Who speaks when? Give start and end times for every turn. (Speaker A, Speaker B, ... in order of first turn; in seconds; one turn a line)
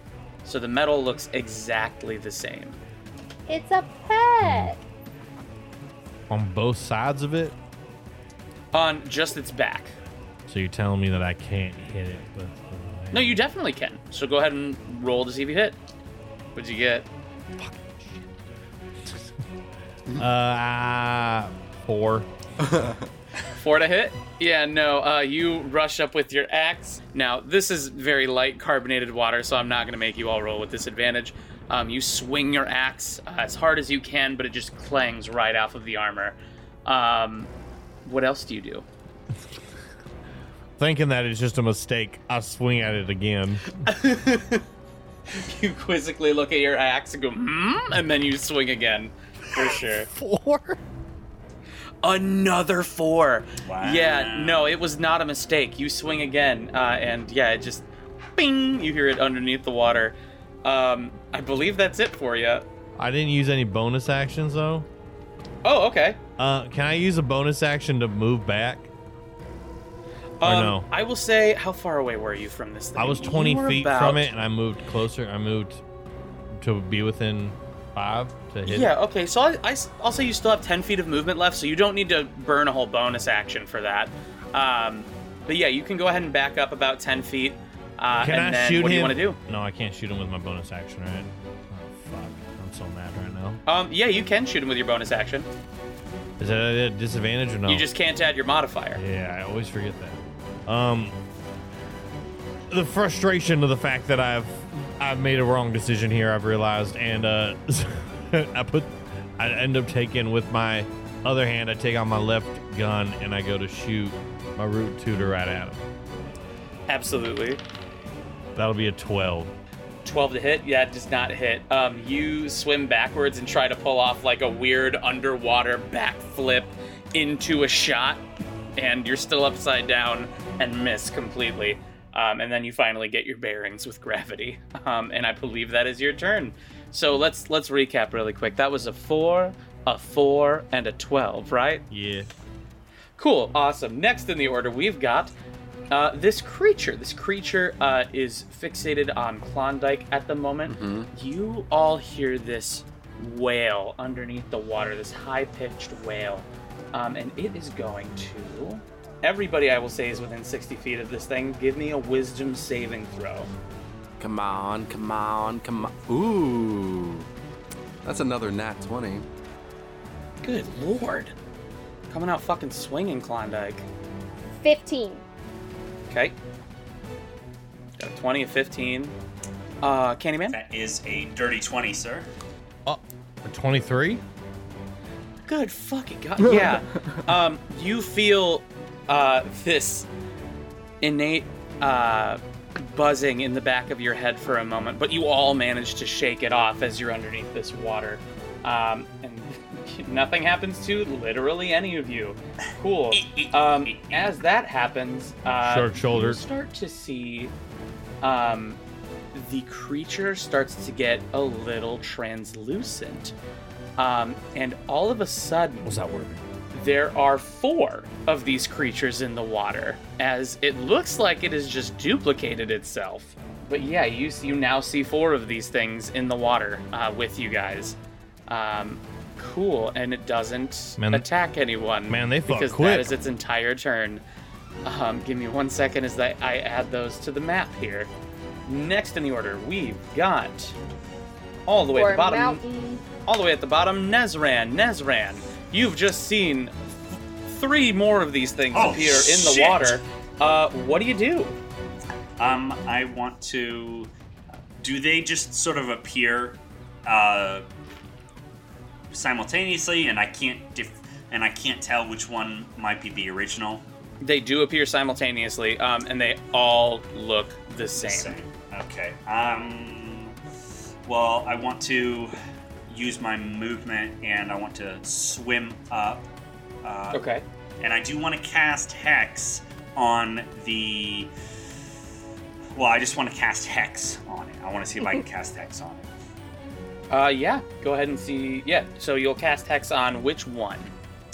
Speaker A: 0.4-2.8
Speaker B: 3.5-4.8
Speaker C: 4.4-4.7
Speaker C: 6.3-7.5
Speaker A: 8.7-9.9
Speaker C: 10.5-13.4
Speaker A: 13.1-15.8
Speaker A: 16.6-17.1
Speaker C: 17.6-18.2
Speaker C: 20.1-22.3
Speaker D: 22.6-23.0
Speaker A: 23.5-37.5
Speaker A: 38.0-38.9
Speaker C: 40.8-43.8
Speaker A: 43.8-44.6
Speaker A: 45.3-50.1
Speaker C: 50.1-50.8
Speaker A: 52.0-62.6
Speaker E: 53.6-54.7
Speaker C: 63.0-64.9
Speaker A: 65.6-66.2
Speaker C: 66.4-68.9
Speaker A: 70.4-74.3
Speaker C: 70.4-70.9
Speaker C: 73.0-75.8
Speaker C: 76.6-78.9
Speaker A: 78.7-89.4
Speaker C: 88.2-93.6
Speaker A: 93.7-95.5
Speaker C: 96.4-97.9
Speaker A: 97.7-99.0
Speaker C: 99.0-101.2
Speaker C: 102.7-115.8
Speaker A: 116.9-117.6
Speaker C: 118.5-119.5
Speaker A: 120.0-128.2
Speaker A: 128.8-141.9
Speaker C: 141.9-142.3
Speaker A: 143.2-145.3
Speaker A: 145.9-163.5
Speaker D: 150.7-151.1
Speaker D: 164.2-167.3
Speaker D: 168.0-169.3
Speaker A: 170.4-171.3
Speaker A: 172.1-173.9
Speaker B: 174.6-175.2
Speaker A: 176.1-176.4
Speaker A: 178.0-179.2
Speaker A: 179.8-180.6
Speaker E: 180.5-182.3
Speaker C: 182.9-184.2
Speaker A: 185.5-190.1
Speaker D: 186.4-187.2
Speaker A: 191.0-207.5
Speaker E: 203.1-204.3
Speaker C: 205.6-206.4
Speaker A: 208.2-208.8
Speaker A: 209.3-213.3
Speaker A: 214.0-216.0
Speaker C: 215.8-216.4
Speaker A: 216.7-234.2
Speaker C: 231.0-231.2
Speaker C: 232.1-233.1
Speaker A: 234.8-238.1
Speaker A: 238.7-240.8
Speaker A: 241.7-242.6
Speaker B: 241.9-243.0
Speaker A: 243.2-246.9
Speaker A: 247.4-251.6
Speaker E: 248.7-250.0
Speaker E: 252.4-254.1
Speaker E: 254.8-257.7
Speaker E: 259.1-263.9
Speaker A: 264.2-268.4
Speaker E: 268.0-270.4
Speaker E: 271.1-272.3
Speaker E: 272.9-276.2
Speaker E: 276.8-277.3
Speaker A: 277.1-277.4
Speaker E: 277.8-281.3
Speaker E: 282.8-286.1
Speaker A: 287.1-290.9